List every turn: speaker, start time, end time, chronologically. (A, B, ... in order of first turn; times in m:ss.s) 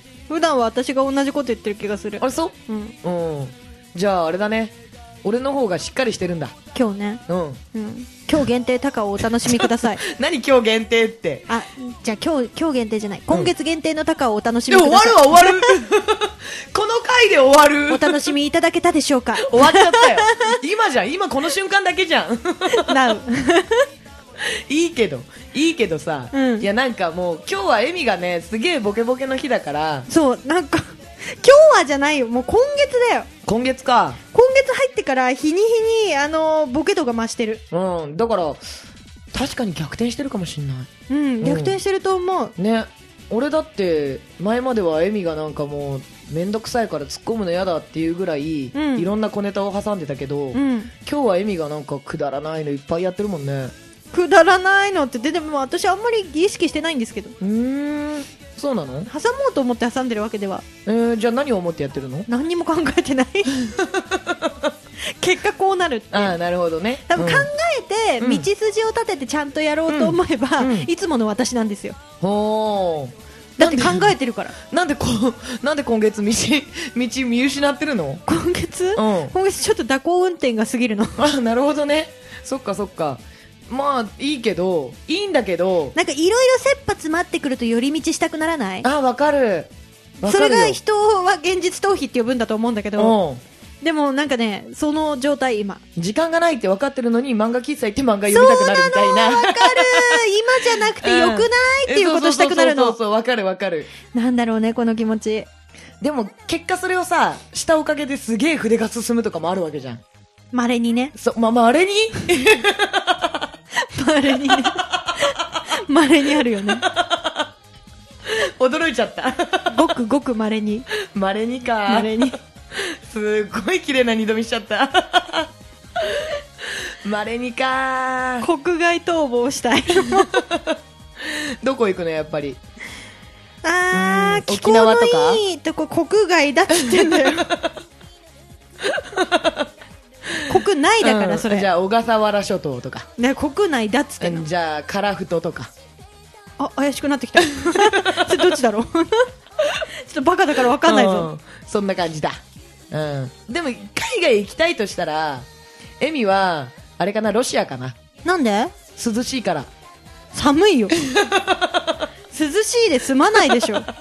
0:00.3-0:02.9 A
0:02.2-0:06.6 B
0:06.7-0:07.2 A
0:07.3-0:07.6 B
0:07.7-0:10.0 A
0:09.2-0:11.5 B
0:11.5-0:15.8 A
0:14.7-0:18.3 B
0:17.9-0:20.6 A
0:19.4-0:23.2 B
0:22.7-0:23.9 A
0:24.4-0:30.1 B
0:26.3-0:26.7 A
0:30.1-0:33.3 A
0:33.4-0:34.2 B
0:34.3-0:37.6 A
0:37.7-0:38.6 B
0:39.3-0:40.9 B
0:41.1-0:42.5 A
0:41.4-0:41.8 B
0:42.6-0:53.7 B
0:48.7-0:49.1 A
0:50.5-0:50.9 A
0:54.1-0:57.3 A
0:57.4-0:59.1 B
0:59.1-1:00.6 A
1:00.8-1:02.3 B
1:02.3-1:03.6 A
1:03.5-1:04.7 B
1:05.0-1:06.4 A
1:06.1-1:07.5 B
1:07.1-1:12.0 A
1:08.2-1:08.5 B
1:09.9-1:10.9 B
1:12.2-1:18.2 B
1:13.6-1:14.5 A
1:18.3-1:21.2 A
1:19.0-1:19.3 B
1:21.2-1:26.0 B
1:25.9-1:28.9 A
1:28.8-1:30.8 B
1:30.2-1:33.2 A
1:33.0-1:33.4 B
1:33.8-1:35.8 A
1:36.0-1:43.9 B
1:38.3-1:43.0 A
1:44.1-1:45.5 A
1:46.0-1:50.0 B
1:50.5-1:51.1 A
1:51.2-1:53.5 B
1:53.8-1:56.8 A
1:54.5-1:55.2 B
1:56.4-1:57.5 B
1:58.2-1:59.8 B
1:59.7-2:00.9 A
2:01.0-2:08.5 B
2:01.9-2:02.4 A
2:08.4-2:10.4 A
2:10.0-2:12.6 B
2:13.6-2:17.5 A
2:13.9-2:15.4 B
2:16.9-2:17.7 B
2:18.8-2:19.7 B
2:20.5-2:23.1 B
2:20.5-2:21.7 A
2:23.2-2:24.4 A
2:24.2-2:25.7 B
2:26.6-2:29.3 A
2:27.6-2:28.5 B
2:30.0-2:31.3 A
2:30.8-2:35.5 B
2:36.0-2:38.0 B
2:38.2-2:38.7 A
2:39.0-2:39.7 B
2:40.3-2:40.9 A
2:40.9-2:42.0 B
2:42.3-2:43.9 A
2:43.4-2:43.8 B